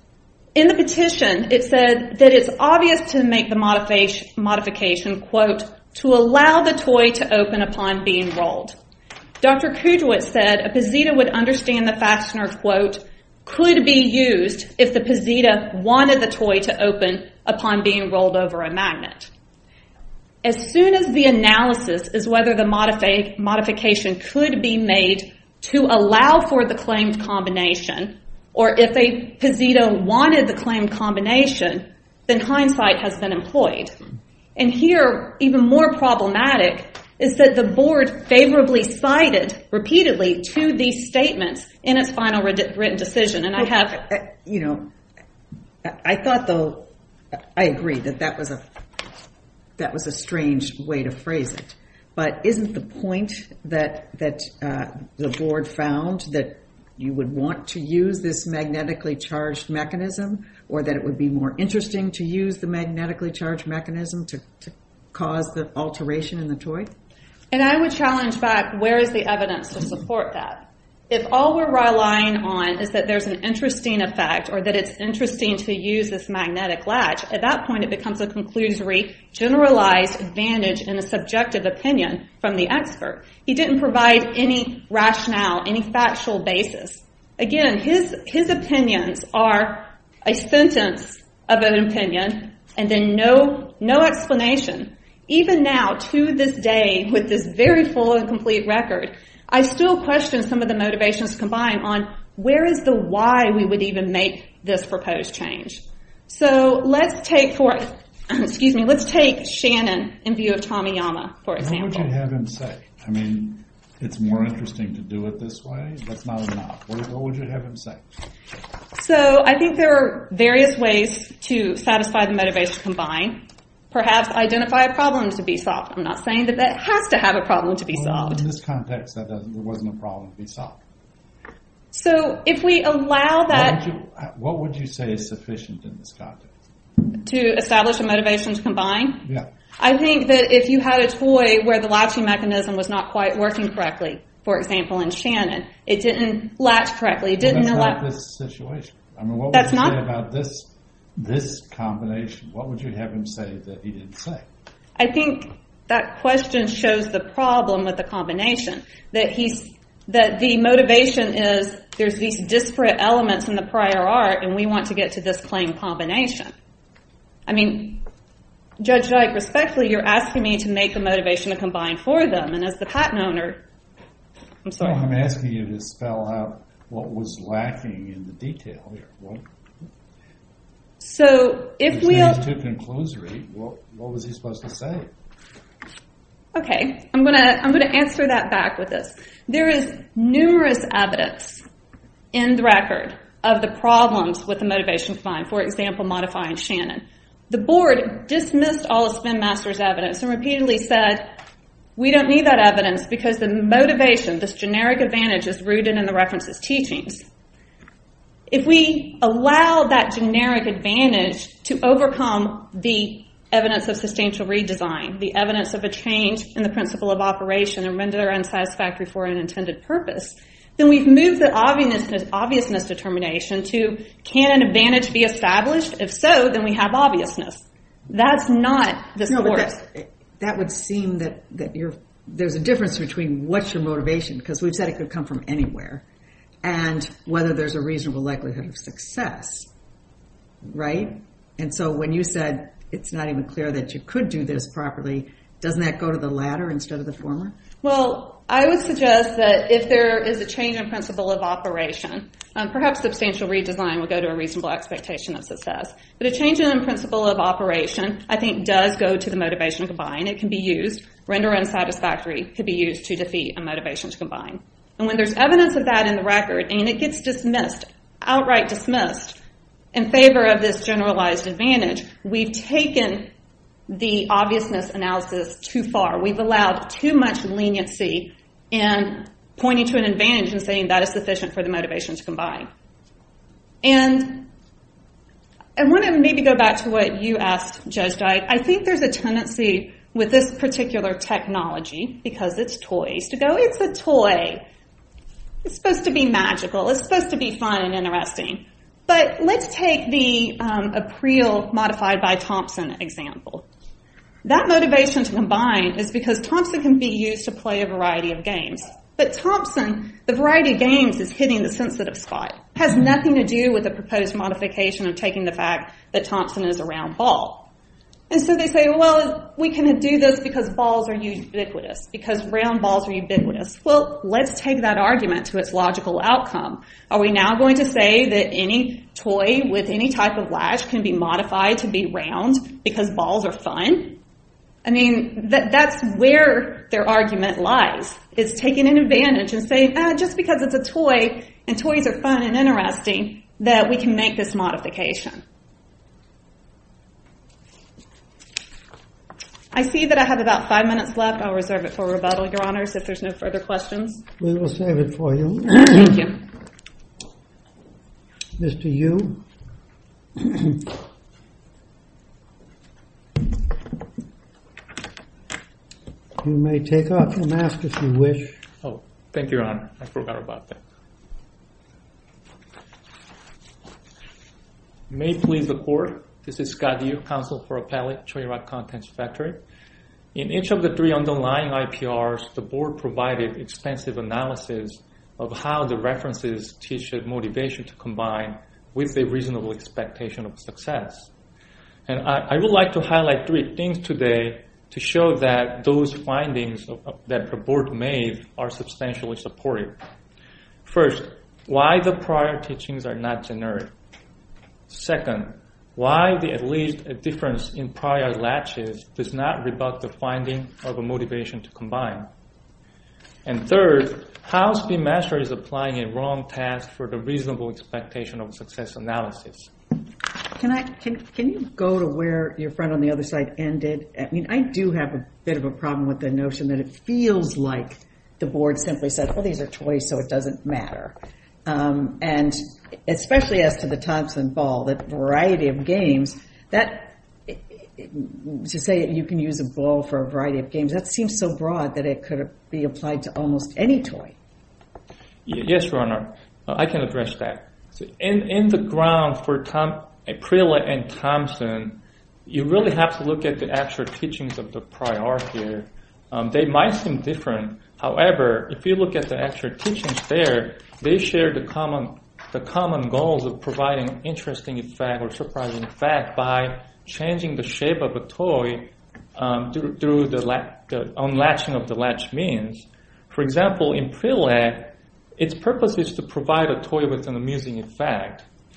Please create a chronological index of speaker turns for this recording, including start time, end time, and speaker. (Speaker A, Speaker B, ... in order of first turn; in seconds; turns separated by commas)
Speaker A: 0.5-8.8, Speaker A: 9.4-19.3, Speaker A: 20.4-33.9, Speaker A: 34.5-44.0, Speaker B: 43.6-44.9, Speaker B: 45.8-48.6, Speaker B: 49.8-66.9, Speaker A: 67.5-112.1, Speaker C: 111.6-118.0, Speaker A: 119.0-128.4, Speaker C: 127.9-130.8, Speaker A: 131.9-133.8, Speaker C: 133.5-136.5, Speaker A: 137.1-139.2, Speaker A: 139.8-148.0, Speaker C: 147.4-154.5, Speaker A: 149.5-150.0, Speaker A: 155.0-166.5, Speaker A: 167.5-168.0, Speaker A: 168.8-173.6, Speaker A: 174.6-175.1, Speaker C: 174.8-179.4, Speaker A: 181.0-182.4, Speaker C: 181.9-185.1, Speaker A: 186.5-191.6, Speaker A: 192.3-201.4, Speaker A: 202.0-207.2, Speaker A: 208.5-229.8, Speaker B: 229.3-236.0, Speaker B: 236.6-239.7, Speaker B: 240.6-247.6, Speaker A: 247.8-269.4, Speaker A: 269.9-273.3, Speaker A: 273.9-282.7, Speaker A: 283.8-284.5, Speaker A: 285.8-294.6, Speaker A: 295.6-303.6, Speaker A: 304.4-317.7, Speaker A: 318.3-334.2, Speaker A: 334.8-345.4, Speaker A: 349.7-354.2, Speaker D: 354.4-356.3, Speaker A: 355.9-356.3, Speaker D: 358.6-359.4, Speaker D: 360.4-360.9, Speaker D: 366.4-368.6, Speaker E: 368.8-370.8, Speaker E: 375.1-379.6, Speaker E: 380.3-391.3, Speaker E: 392.1-400.0, Speaker E: 400.9-403.9, Speaker E: 404.9-412.3, Speaker E: 413.4-419.7, Speaker B: 420.6-431.1, Speaker B: 431.6-444.3, Speaker E: 445.4-478.4